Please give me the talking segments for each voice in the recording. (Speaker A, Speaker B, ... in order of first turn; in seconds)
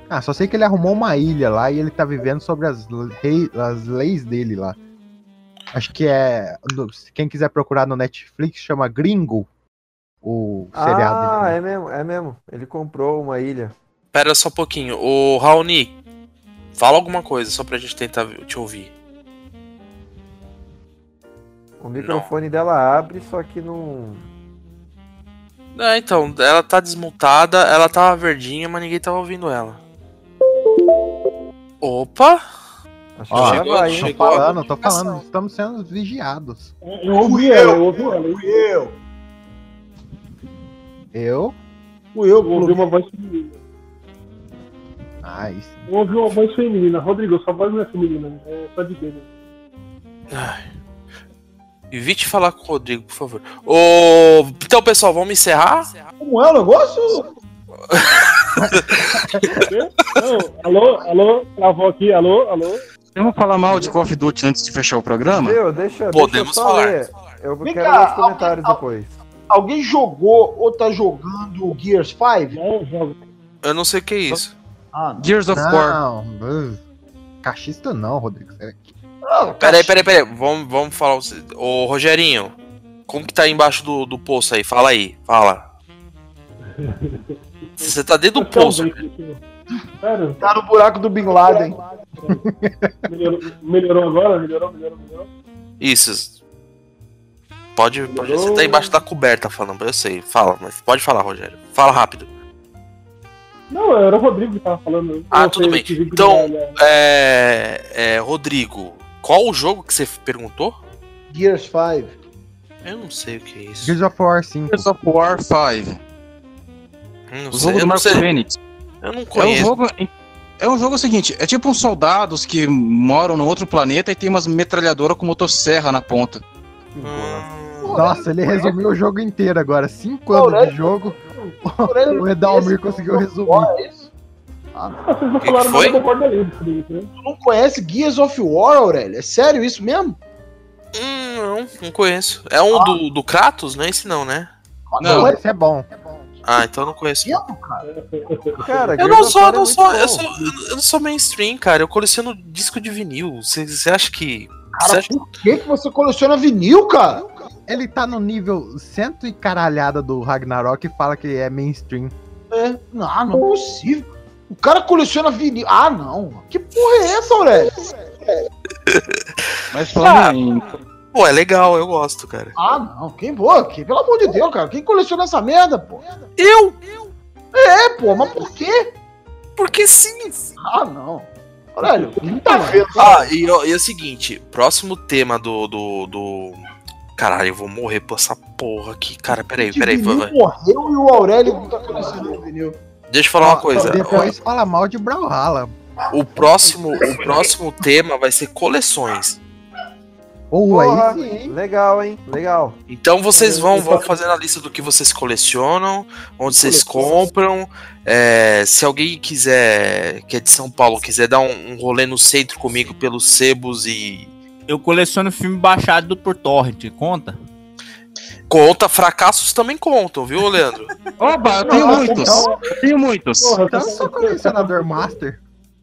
Speaker A: 0.1-4.8, 5.7-9.5, 10.2-11.6, 33.3-36.7, 41.1-41.5, 45.2-45.9, 58.5-59.4, 75.5-76.8, 77.4-78.9, 92.3-92.9, 113.8-114.9, 127.9-133.7, 145.0-145.9, 157.2-162.1, 193.4-195.7, 200.5-201.5, 221.6-222.6, 223.7-225.4
Speaker B: 10.7-13.7, 21.8-24.2, 33.2-34.2, 65.2-69.1, 126.9-127.5, 148.6-150.3, 200.7-202.8
Speaker C: 14.1-15.9, 16.7-18.9, 22.0-22.3, 25.7-29.8, 31.8-32.4, 33.3-34.5, 50.3-50.6, 51.9-55.9, 57.9-58.2, 58.9-59.6, 66.1-67.0, 73.6-74.5, 79.6-82.5, 83.1-85.6, 87.8-89.0, 95.8-96.4, 97.8-102.3, 105.3-110.8, 112.8-114.0, 117.3-118.2, 119.0-119.7, 127.0-128.1, 135.4-136.0, 140.9-144.5, 146.4-147.4, 149.0-155.1, 171.1-172.5, 176.4-176.8, 179.6-180.5, 182.9-186.6, 187.2-190.3, 193.1-194.3, 196.1-199.4, 202.9-214.3, 218.5-220.9
Speaker D: 36.8-38.5, 42.4-43.6, 45.9-49.2, 59.7-62.8, 72.5-73.2, 86.7-89.4, 90.0-90.4, 93.0-95.3, 98.1-99.0, 103.7-106.7, 135.0-137.1, 147.8-148.9, 181.9-183.1, 203.3-204.1, 206.5-207.2, 221.6-222.8, 223.4-225.1
Speaker E: 37.1-39.0, 42.1-42.9, 56.2-57.3, 67.6-68.8, 69.5-72.6, 74.9-75.3, 79.2-80.0, 90.4-91.8, 111.3-112.1, 127.8-128.7, 130.3-130.9, 131.8-134.1, 137.2-140.2, 142.7-143.0, 144.9-145.4, 147.2-147.8, 154.7-157.3, 162.5-167.9, 172.6-176.0, 177.5-178.9, 180.7-183.3, 189.6-192.8
Speaker F: 63.1-65.6, 75.2-76.0, 114.7-116.0, 117.5-118.6, 119.3-126.4, 145.0-145.3, 169.7-170.7, 221.2-223.6
Speaker G: 214.7-217.4